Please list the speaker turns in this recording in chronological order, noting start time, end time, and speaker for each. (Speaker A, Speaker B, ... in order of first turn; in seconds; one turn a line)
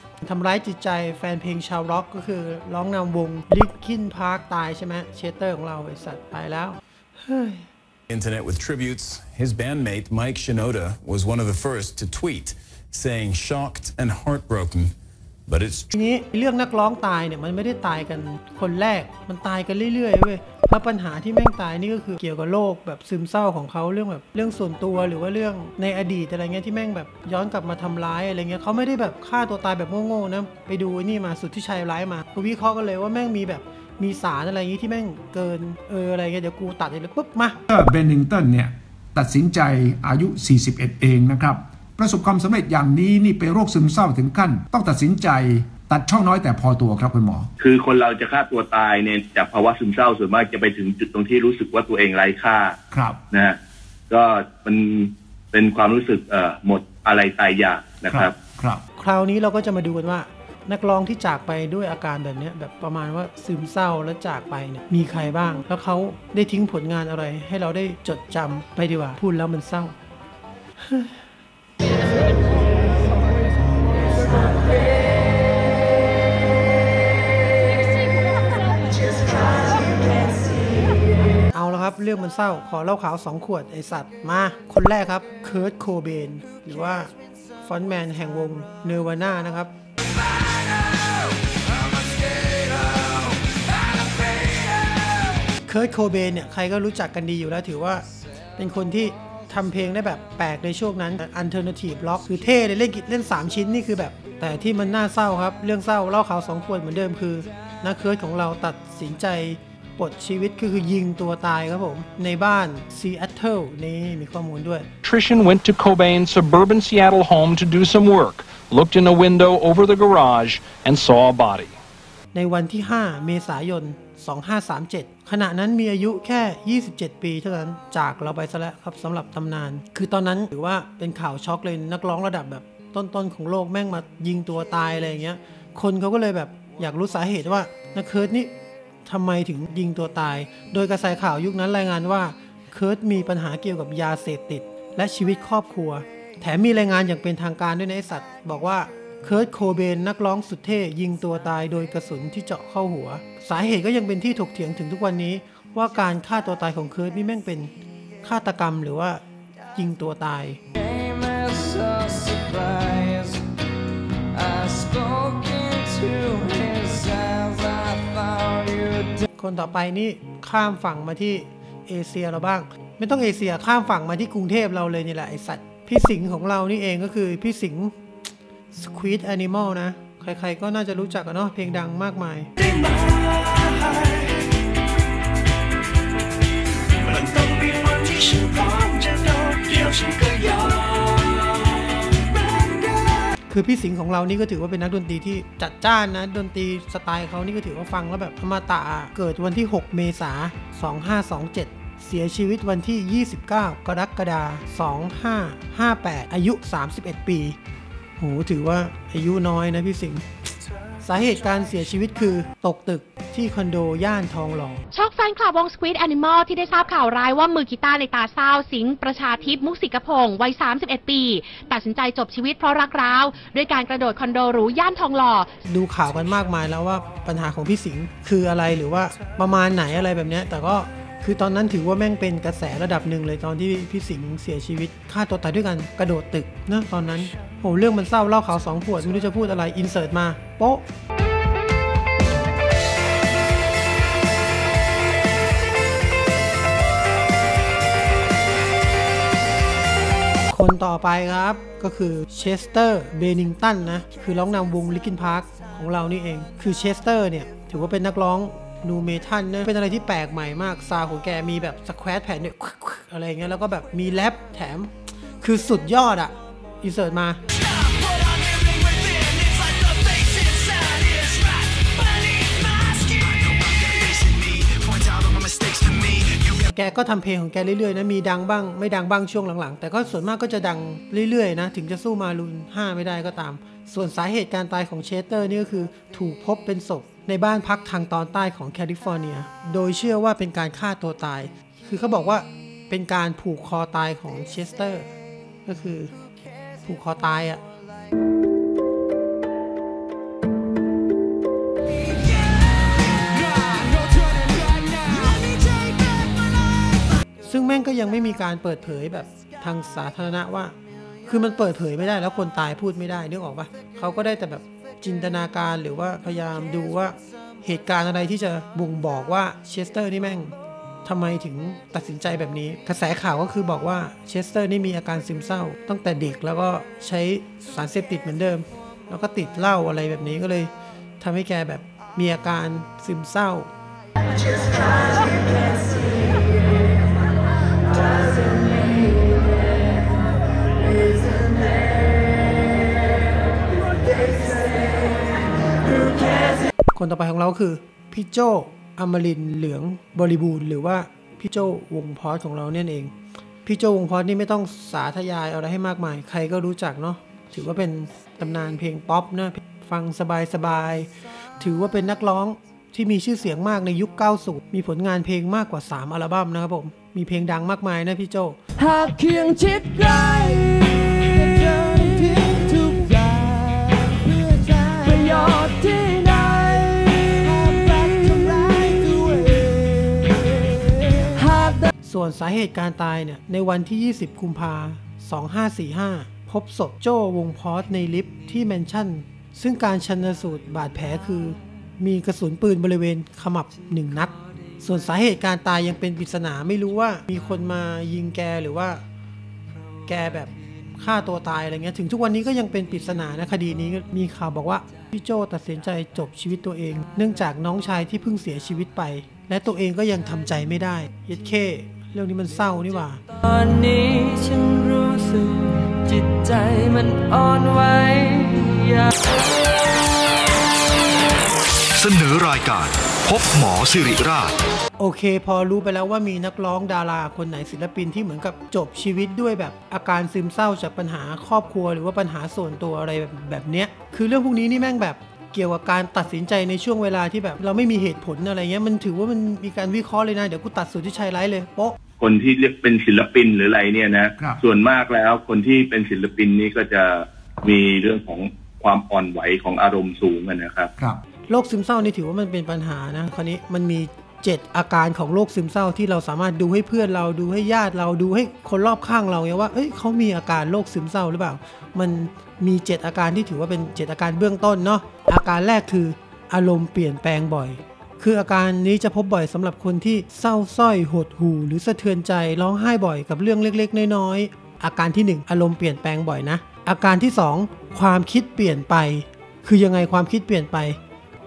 Speaker A: 0.2-7.7
Speaker B: 8.1-14.9
Speaker B: 15.4-15.9
Speaker A: 15.9-37.5
Speaker C: 37.7-47.5
Speaker D: 47.6-52.8
Speaker C: 52.9-53.2
Speaker D: 53.3-53.6
Speaker D: 54.1-58.4
Speaker C: 58.5-58.8
Speaker A: 59.0-69.9
Speaker A: 70.8-71.2
Speaker A: 81.5-89.7
Speaker E: 92.0-93.1
Speaker A: 95.7-98.0
Speaker A: 98.6-114.8
Speaker F: 115.0-121.8
Speaker A: 122.3-138.5
Speaker A: 139.1-157.7
Speaker A: 158.2-159.2
Speaker A: 159.7-160.6
Speaker E: 160.8-163.4
Speaker E: 164.3-169.2
Speaker A: 169.4-177.9
Speaker A: 178.7-182.5
Speaker G: 182.6-184.5
Speaker G: 187.0-193.3
Speaker A: 193.5-207.6
Speaker A: 208.2-210.2
Speaker A: 211.0-214.8
Speaker H: 214.9-225.5
Speaker A: 225.7-240.8
Speaker A: 250.5-267.4
Speaker G: 268.0-276.6
Speaker A: 276.7-295.1
Speaker A: 295.6-296.1
Speaker A: 296.8-297.6
Speaker E: 303.4-305.8
Speaker A: 307.4-310.7
Speaker A: 311.2-333.7
Speaker A: 346.9-353.1
Speaker A: 353.6-368.6
Speaker E: 368.8-381.9
Speaker A: 382.0-399.0
Speaker A: 400.1-413.2
Speaker E: 413.4-419.1
Speaker I: 421.9-424.6
Speaker A: 425.0-441.9
Speaker D: 442.2-450.9
Speaker A: 451.5-481.0